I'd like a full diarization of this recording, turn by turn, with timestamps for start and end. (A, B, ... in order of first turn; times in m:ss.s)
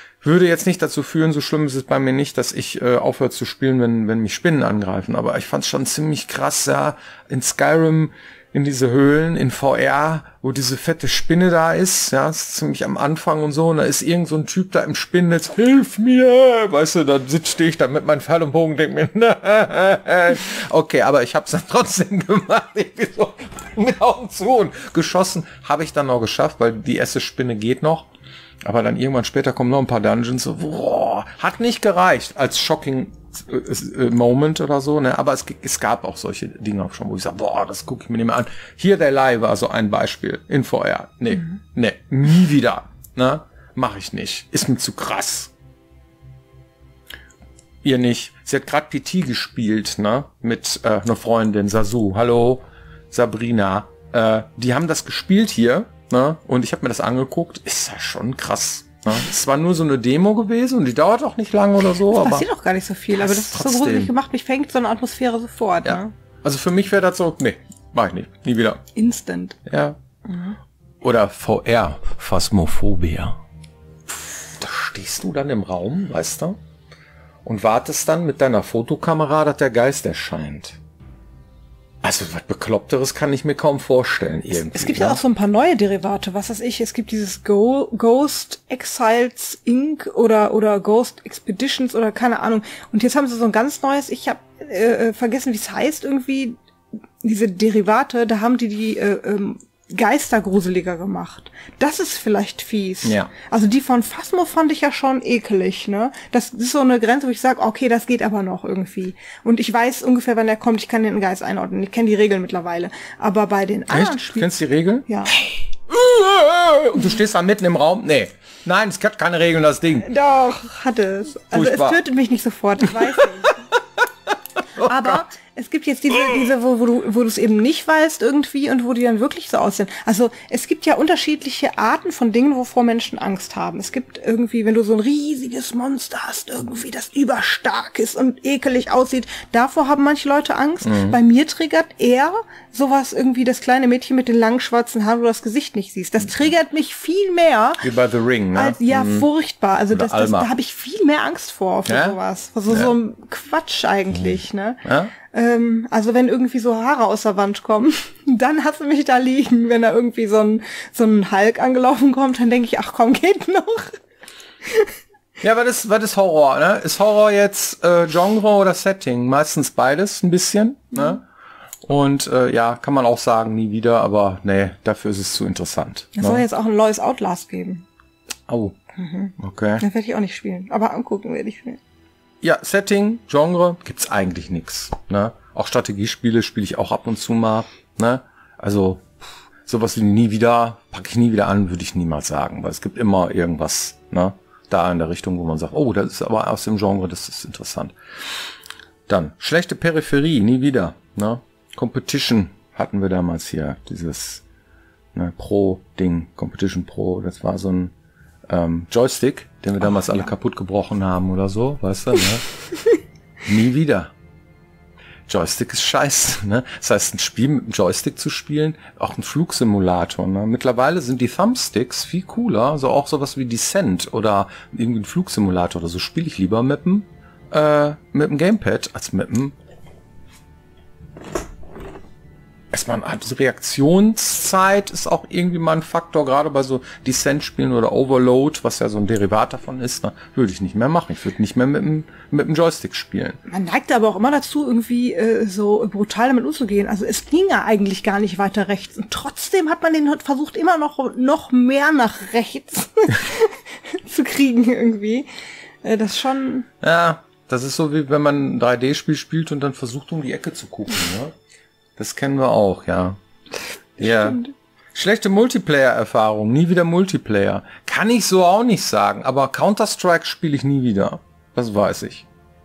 0:00.2-0:28.1 A
0:28.6-0:45.5 A
0:47.8-1:02.4 A
1:02.1-1:06.1 B
1:03.1-1:04.1 A
1:05.8-1:08.8 A
1:08.9-1:09.6 B
1:09.6-1:10.0 A
1:10.2-1:10.6 B
1:11.0-1:13.4 A
1:14.1-1:16.6 A
1:17.4-1:20.8 A
1:22.0-1:25.2 A
1:24.5-1:36.6 B
1:37.2-1:54.5 B
1:43.0-1:43.3 A
1:53.9-2:00.1 A
1:55.0-1:55.4 B
2:00.0-2:03.6 B
2:01.5-2:02.0 A
2:02.9-2:03.5 A
2:04.8-2:05.2 A
2:04.8-2:27.9 B
2:20.8-2:21.2 A
2:27.8-2:29.3 A
2:28.5-2:44.0 B
2:29.9-2:30.5 A
2:31.9-2:32.2 A
2:32.7-2:32.9 A
2:34.8-2:35.1 A
2:44.6-2:44.9 B
2:45.4-2:51.2 A
2:51.8-2:56.4 A
2:56.2-2:57.8 B
2:58.5-2:58.8 A
2:59.0-3:01.8 B
2:59.4-2:59.8 A
3:02.4-3:09.1 A
3:09.6-3:17.9 A
3:19.1-3:24.4 A
3:25.1-3:27.9 A
3:28.5-3:32.4 A
3:33.4-3:34.1 A
3:35.3-3:49.5 A
3:52.7-4:03.4 A
4:03.5-4:15.3 B
4:15.8-4:16.7 B
4:16.8-4:21.4 A
4:22.0-4:23.2 A
4:24.0-4:24.5 B
4:24.0-4:24.4 A
4:24.9-4:32.2 A